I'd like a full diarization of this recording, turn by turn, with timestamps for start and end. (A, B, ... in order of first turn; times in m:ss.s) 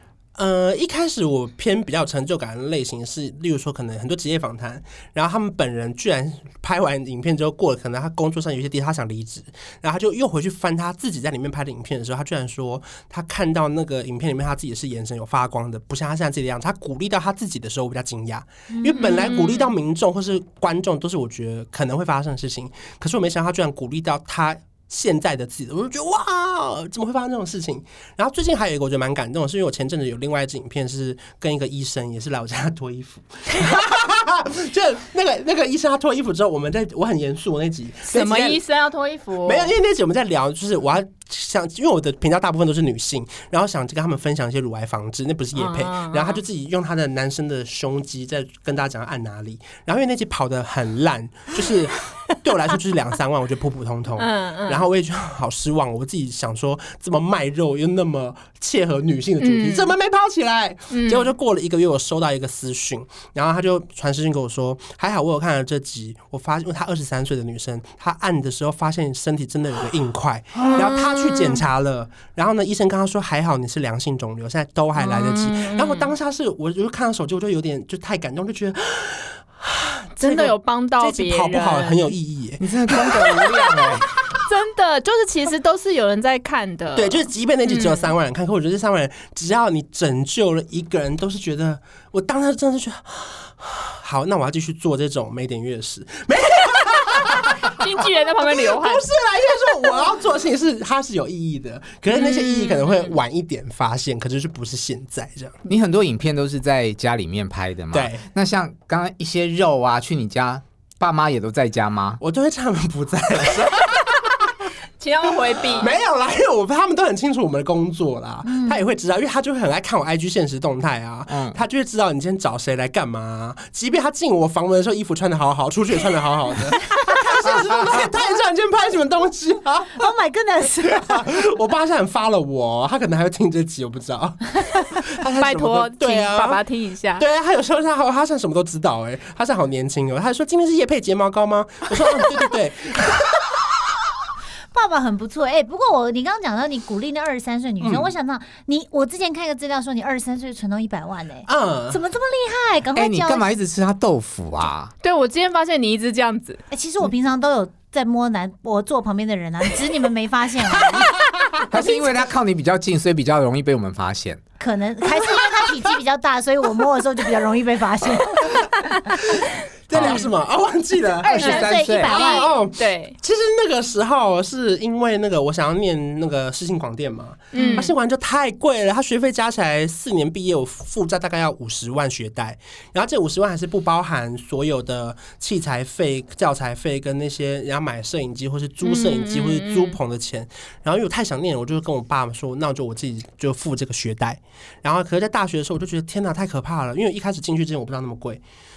0:00.4-0:38.6 A
0:18.7-0:19.0 B
0:19.0-0:19.7 C
0:38.1-0:39.7 C
0:39.4-1:23.2 A
0:45.5-0:46.4 C
0:54.2-0:54.8 C
0:59.4-0:59.9 C
1:00.9-1:01.3 C
1:10.6-1:11.6 C
1:15.0-1:16.1 C
1:20.2-1:22.1 C
1:22.6-1:24.1 D
1:23.1-1:28.1 C
1:27.0-1:37.9 A
1:37.6-1:39.1 C
1:38.4-1:45.6 A
1:42.1-1:43.2 C
1:45.7-1:52.2 D
1:47.9-1:48.2 A
1:52.2-1:54.7 A
1:55.0-1:55.9 C
1:55.6-2:10.0 A
1:58.4-1:58.8 B
2:01.3-2:01.6 D
2:09.9-2:11.2 B
2:10.9-2:16.6 A
2:15.4-2:17.2 C
2:17.2-2:23.5 A
2:24.7-2:33.5 B
2:27.8-2:28.1 A
2:31.5-2:32.0 A
2:33.0-2:34.9 D
2:35.0-2:36.6 C
2:36.7-2:41.1 B
2:41.7-2:44.4 D
2:41.7-2:42.0 B
2:44.6-2:49.0 B
2:49.9-3:18.4 A
2:49.9-2:50.2 D
2:50.0-2:50.2 C
2:51.2-2:52.5 B
2:51.3-2:52.2 D
2:51.4-2:53.2 C
2:57.5-2:57.9 B
2:57.5-2:57.9 C
3:08.8-3:10.0 C